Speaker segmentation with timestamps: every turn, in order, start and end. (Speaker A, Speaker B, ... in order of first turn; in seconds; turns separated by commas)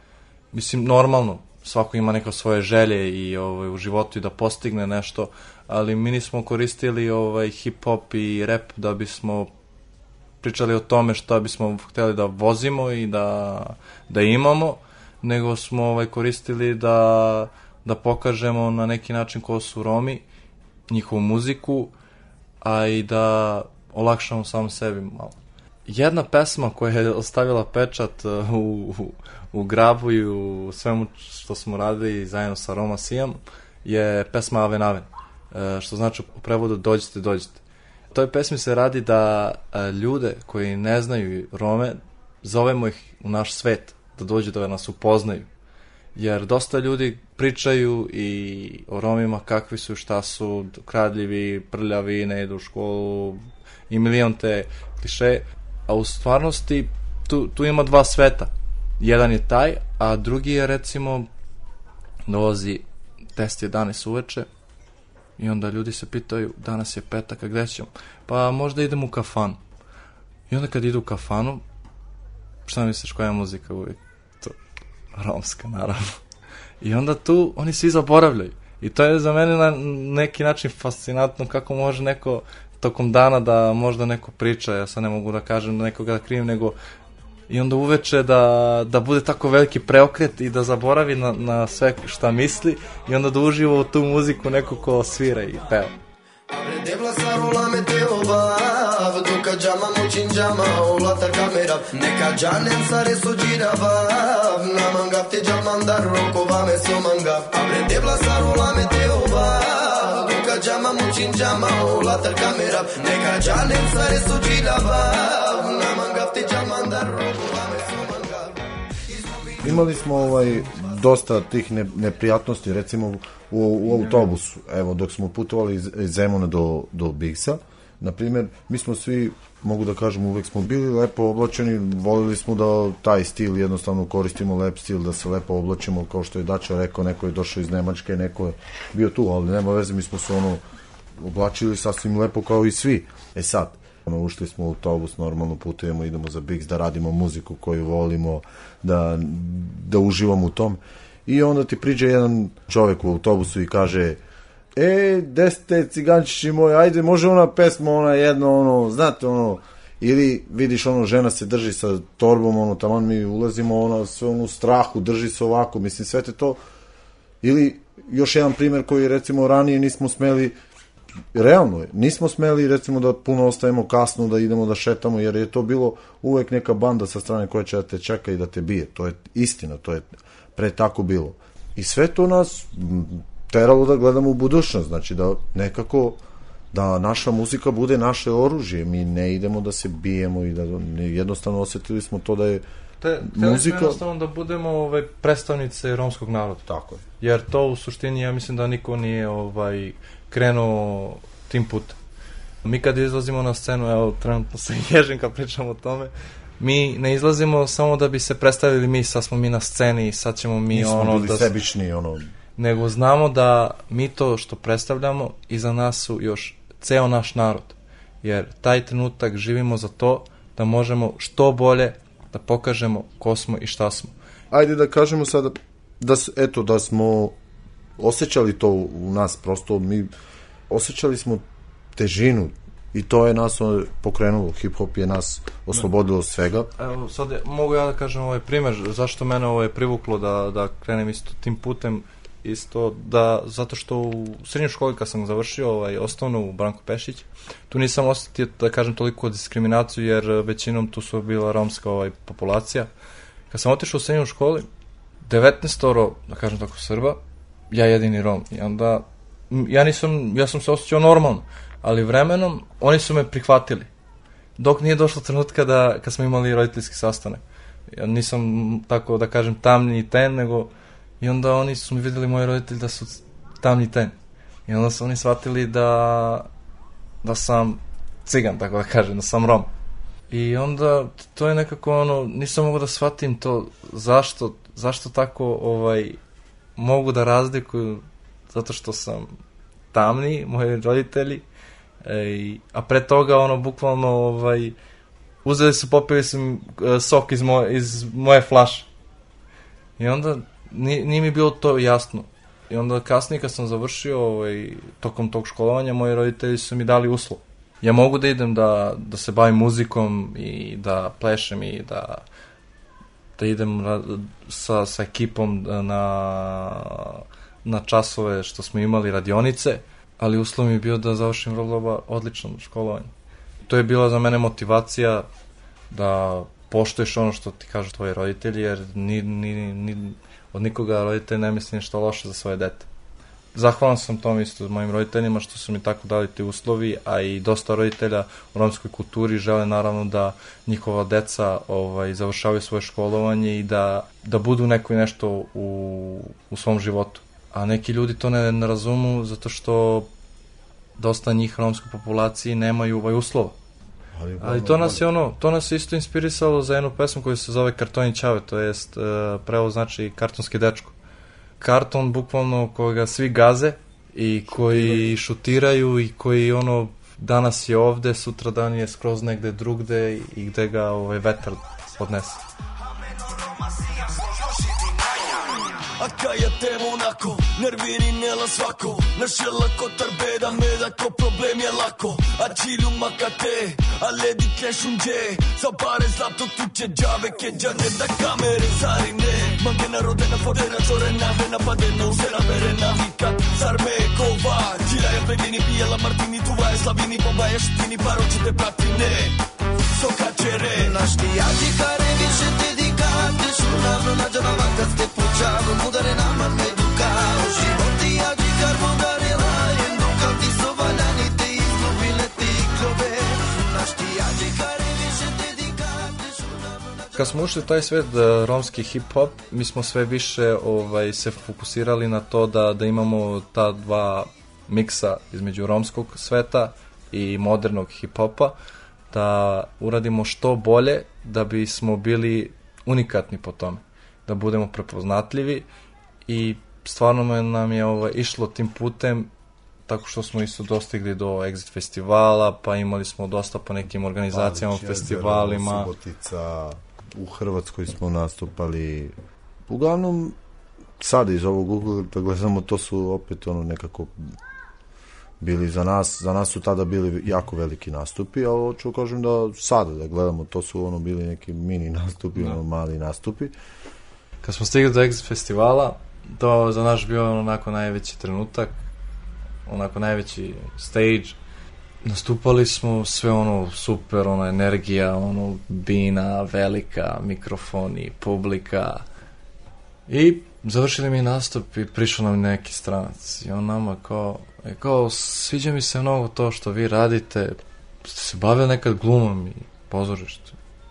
Speaker A: 0.5-9.5, Speaker A: 10.4-20.2, Speaker A: 20.9-21.9, Speaker A: 22.6-37.6, Speaker A: 38.1-45.5, Speaker A: 46.1-61.3, Speaker A: 62.3-62.8, Speaker A: 63.4-64.5, Speaker A: 65.4-69.6, Speaker A: 70.5-71.6, Speaker A: 72.7-74.6, Speaker A: 75.2-76.2, Speaker A: 76.8-86.8, Speaker A: 87.5-96.0, Speaker B: 96.5-119.8, Speaker C: 119.6-140.6, Speaker C: 141.2-154.2, Speaker C: 154.8-166.6, Speaker C: 167.4-170.6, Speaker C: 171.3-186.2, Speaker C: 186.7-192.7, Speaker A: 193.0-196.6, Speaker C: 193.2-194.0, Speaker C: 196.7-197.1, Speaker A: 197.2-202.0, Speaker A: 202.6-211.5, Speaker C: 210.7-212.3, Speaker A: 212.6-224.1, Speaker C: 224.5-227.4, Speaker C: 228.0-230.1, Speaker C: 230.7-231.4, Speaker C: 231.9-236.7, Speaker A: 236.8-252.9, Speaker A: 253.5-254.7, Speaker A: 255.2-257.2, Speaker A: 257.7-263.9, Speaker A: 264.6-274.1, Speaker A: 274.7-276.5, Speaker A: 277.2-279.7, Speaker A: 280.3-286.2, Speaker A: 286.8-289.4, Speaker A: 289.9-291.5, Speaker A: 292.1-294.8, Speaker A: 295.4-298.9, Speaker A: 300.0-312.2, Speaker A: 313.4-323.1, Speaker A: 323.7-325.3, Speaker A: 325.9-332.9, Speaker A: 333.5-350.1, Speaker A: 351.0-353.6, Speaker C: 354.1-355.1, Speaker A: 354.4-360.9, Speaker A: 361.6-372.4, Speaker C: 364.6-365.1, Speaker D: 373.1-399.4, Speaker D: 399.9-401.0, Speaker B: 400.7-417.2, Speaker A: 417.1-428.6, Speaker A: 429.1-435.7, Speaker A: 436.3-439.3, Speaker A: 439.9-445.9, Speaker C: 444.3-449.2, Speaker C: 449.7-450.4, Speaker C: 451.0-454.4, Speaker C: 455.4-463.6, Speaker A: 464.4-468.8, Speaker A: 469.7-471.4, Speaker A: 472.0-479.0, Speaker A: 480.1-490.6